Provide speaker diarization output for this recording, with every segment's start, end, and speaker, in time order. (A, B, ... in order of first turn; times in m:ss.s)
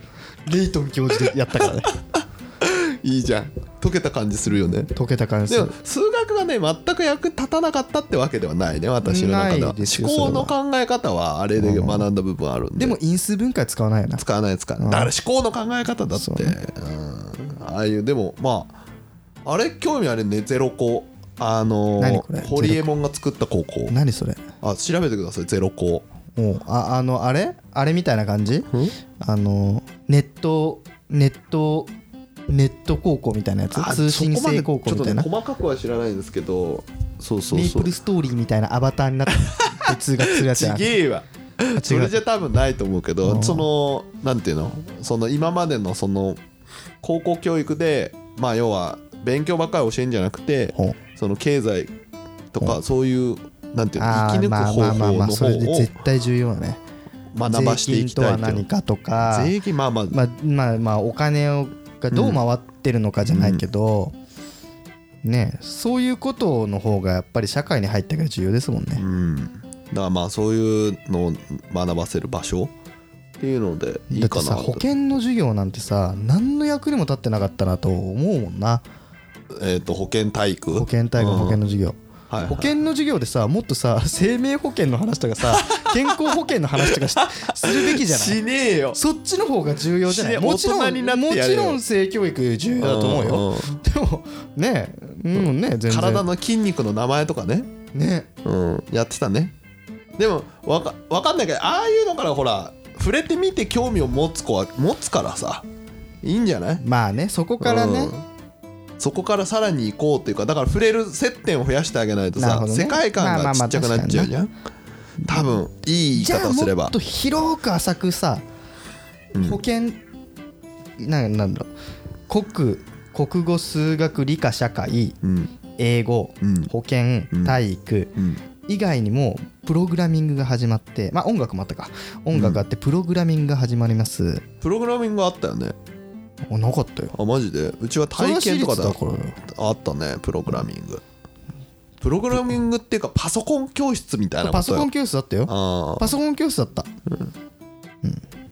0:00.4-0:01.9 A
0:02.1-0:04.9 B
0:04.9-0:05.7 A
0:05.5-0:13.0 B
0:09.0-0:10.5 A
0:11.6-0:12.1 A
0:12.8-0:14.2 A
0:14.2-0:18.8 B
0:14.8-0:15.1 A
0:16.1-0:16.6 A
0:19.4-0:23.9 B
0:22.0-0:22.9 A
0:23.9-0:24.4 A
0:24.6-0:26.0 B
0:26.4-0:31.9 A
0:32.5-0:35.3 A
0:33.7-0:37.9 B
0:37.5-0:41.0 A
0:39.6-0:46.4 B
0:41.7-0:42.1 A
0:43.2-0:43.6 A
0:47.0-0:51.9 B
0:50.7-0:51.0 A
0:52.5-0:55.9 B
0:54.0-0:56.8 A
0:57.3-0:58.6 B
0:57.5-0:59.5 A
0:59.2-1:00.2 B
1:00.1-1:04.1 A
1:02.1-1:02.4 B
1:03.3-1:03.6 B
1:05.2-1:09.0 A
1:09.0-1:12.7 B
1:13.4-1:14.8 B
1:14.1-1:18.8 A
1:19.5-1:21.6 B
1:20.7-1:28.4 A
1:22.3-1:22.7 B
1:25.4-1:29.0 B
1:28.9-1:36.3 A
1:30.0-1:31.8 B
1:32.8-1:33.8 B
1:35.3-1:37.7 B
1:37.9-1:38.3 A
1:38.4-1:39.5 B
1:40.2-1:45.6 B
1:46.2-1:46.8 B
1:46.8-1:48.1 A
1:47.6-1:48.2 B
1:49.0-1:54.5 B
1:52.4-1:54.3 A
1:55.2-1:55.6 A
1:55.2-1:56.9 B
1:56.1-1:58.4 A
1:59.3-1:59.6 B
1:59.4-2:00.0 A
2:01.0-2:01.7 A
2:02.3-2:05.2 A
2:05.2-2:05.5 B
2:05.8-2:08.1 A
2:06.4-2:06.7 B
2:07.3-2:07.6 B
2:08.7-2:14.4 A
2:12.3-2:12.6 B
2:14.6-2:15.7 B
2:16.5-2:17.1 A
2:17.1-2:21.0 B
2:18.1-2:19.4 A
2:22.0-2:24.9 B
2:24.4-2:26.9 A
2:25.5-2:26.1 B
2:27.1-2:27.3 B